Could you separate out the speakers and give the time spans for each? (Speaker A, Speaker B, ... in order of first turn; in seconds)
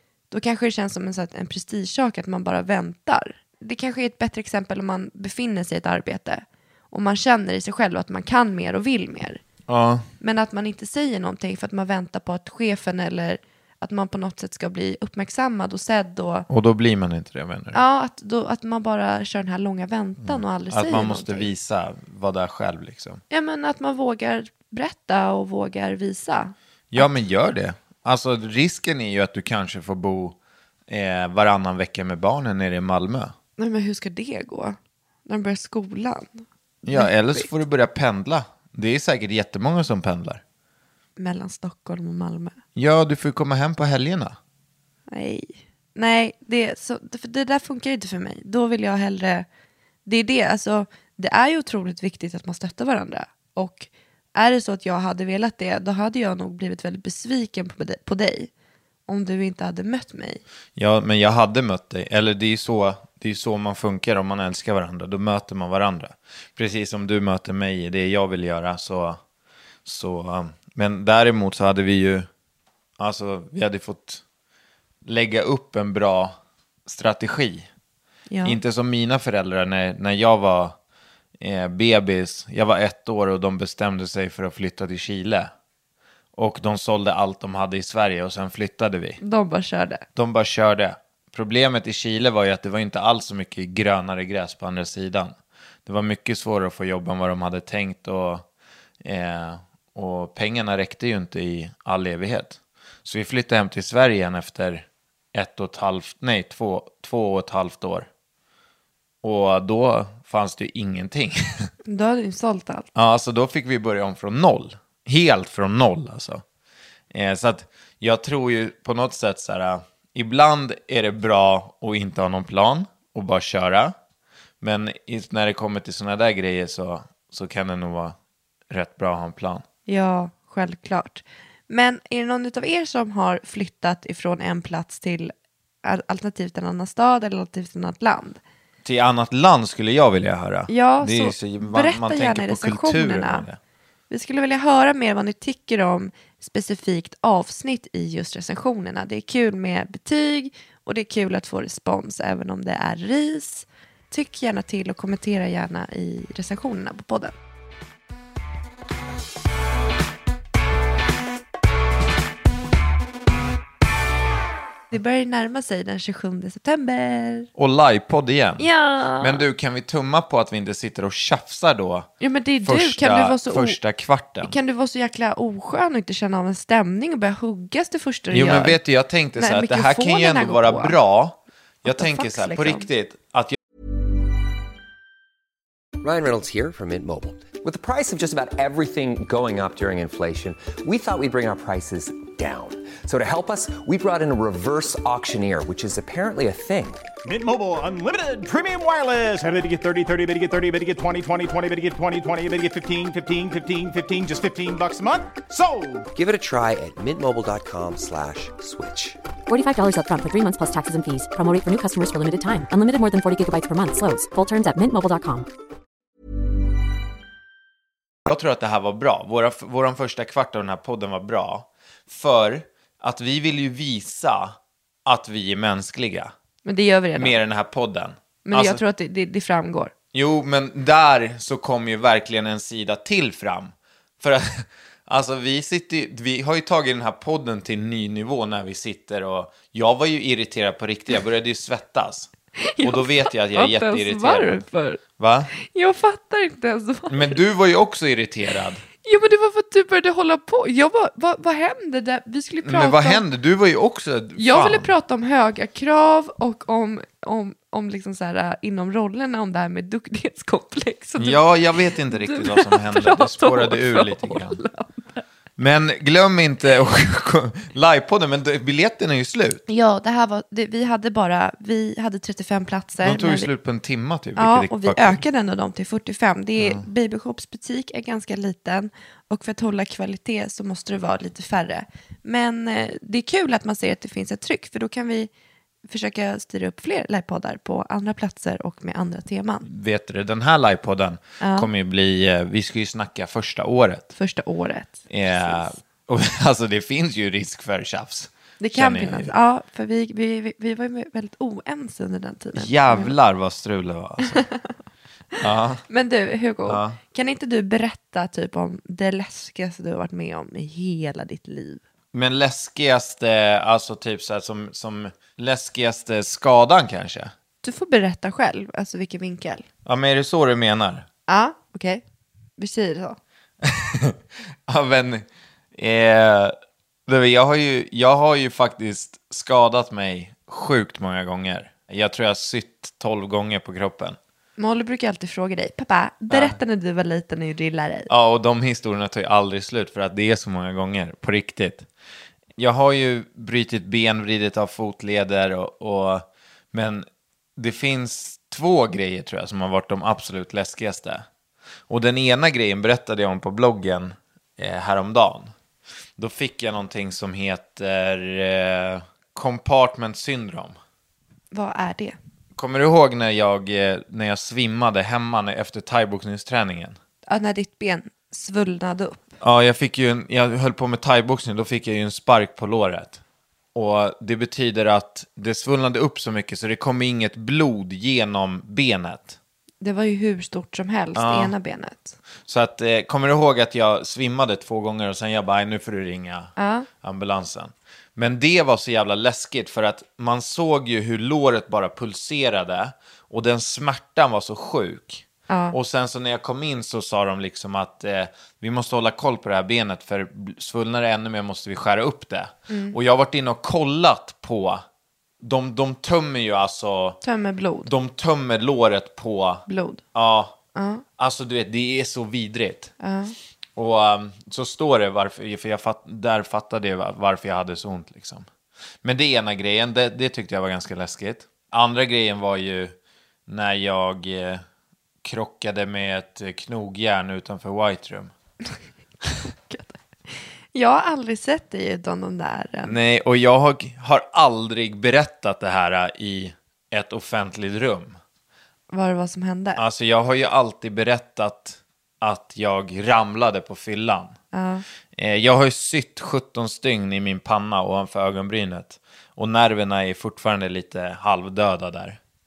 Speaker A: 0.3-9.4, 10.2-16.5, 17.7-21.5, 23.3-27.1, 33.6-34.8, 35.3-37.5, 41.2-42.6, 45.1-49.5, 50.1-58.5, 59.1-60.4, 78.3-78.6, 89.2-90.0, 111.8-112.9, 129.9-135.3, 135.8-138.4, 140.7-143.5, 144.1-157.3, 164.9-167.5, 168.6-169.5, 172.2-173.8, 174.4-178.8, 179.4-181.0, 181.8-182.9, 226.7-227.4, 228.4-229.9, 242.6-245.0, 245.5-247.4, 249.0-253.2, 254.4-261.4, 262.0-265.2, 269.7-273.5, 274.4-285.3, 285.9-289.7, 291.4-291.7, 294.1-295.7, 298.6-303.1, 304.3-304.7, 305.9-311.8, 317.6-319.7, 321.3-322.0, 322.6-323.2, 334.6-338.1, 361.5-362.2, 367.3-369.3, 379.8-382.2, 386.6-386.9, 395.5-395.8, 402.7-403.0, 407.2-407.9, 409.7-410.0, 410.8-411.0, 413.0-413.4, 429.4-433.0, 438.9-439.8, 444.5-444.9
Speaker B: 9.7-10.1, 16.5-17.8, 20.3-23.2, 26.9-30.4, 30.9-33.3, 36.8-40.4, 42.8-44.4, 60.8-69.2, 69.8-72.3, 73.0-74.2, 75.0-76.3, 76.9-77.7, 78.4-80.8, 81.4-85.5, 86.4-89.2, 90.2-95.3, 95.9-98.5, 99.0-108.1, 109.2-111.7, 113.0-116.4, 117.1-123.9, 124.6-128.2, 128.7-129.6, 138.8-143.6, 167.6-168.7, 169.2-172.1, 172.6-174.6, 178.3-183.6, 218.3-226.3, 227.2-228.8, 230.1-244.6, 245.2-245.5, 247.1-248.8, 252.6-254.9, 261.2-264.6, 265.6-269.6, 273.0-275.2, 276.6-276.9, 289.6-294.1, 295.1-299.3, 302.5-304.5, 305.4-305.8, 306.7-307.0, 312.1-317.3, 319.9-321.1, 323.6-326.6, 327.1-334.2, 336.3-336.6, 338.1-341.9, 342.6-351.2, 351.9-355.5, 356.2-360.8, 362.6-367.0, 369.4-373.2, 373.8-379.4, 381.1-381.5, 382.5-404.8, 405.4-407.2, 407.9-410.6, 411.2-412.9, 413.8-418.5, 419.0-422.9, 423.5-424.6, 425.2-428.3, 432.9-438.2, 439.8-444.4, 445.1-452.2
Speaker C: 186.0-197.1, 206.1-209.2
Speaker D: 197.2-206.1
Speaker E: 209.5-215.5